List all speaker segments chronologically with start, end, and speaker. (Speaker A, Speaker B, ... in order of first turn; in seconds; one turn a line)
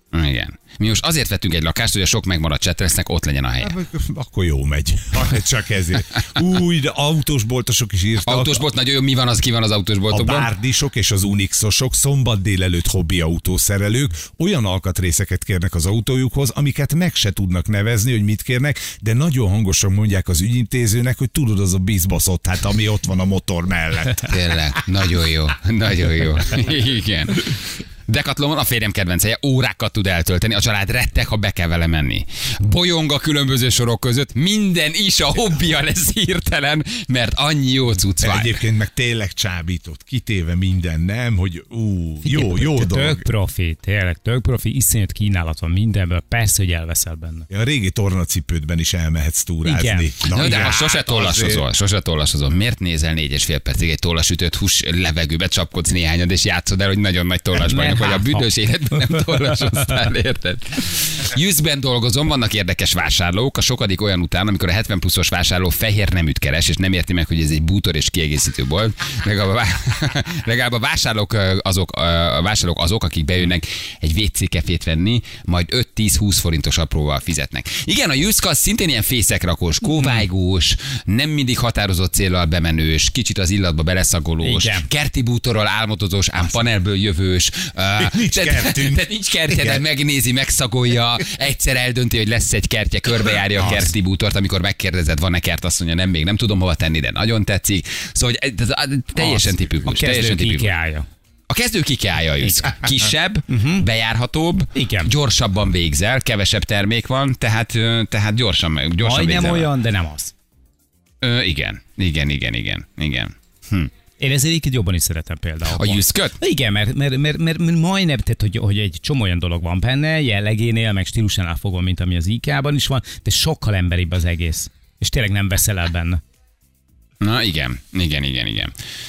Speaker A: 0.1-3.8
Speaker B: 3.6-8.7
Speaker A: 8.2-10.5
Speaker B: 10.1-24.3
Speaker A: 24.3-38.6
Speaker B: 38.2-43.3
Speaker C: 42.2-47.5
Speaker B: 47.5-51.6
Speaker C: 49.6-50.2
Speaker A: 50.2-100.7
Speaker C: 57.5-59.9
Speaker C: 79.8-80.2
Speaker C: 84.4-84.8
Speaker B: 88.0-89.8
Speaker C: 99.2-101.1
Speaker A: 101.5-109.7
Speaker C: 102.4-102.8
Speaker C: 103.5-103.8
Speaker C: 104.7-105.1
Speaker C: 109.0-110.3
Speaker A: 111.2-113.9
Speaker C: 114.2-126.2
Speaker A: 115.7-116.4
Speaker A: 127.2-128.7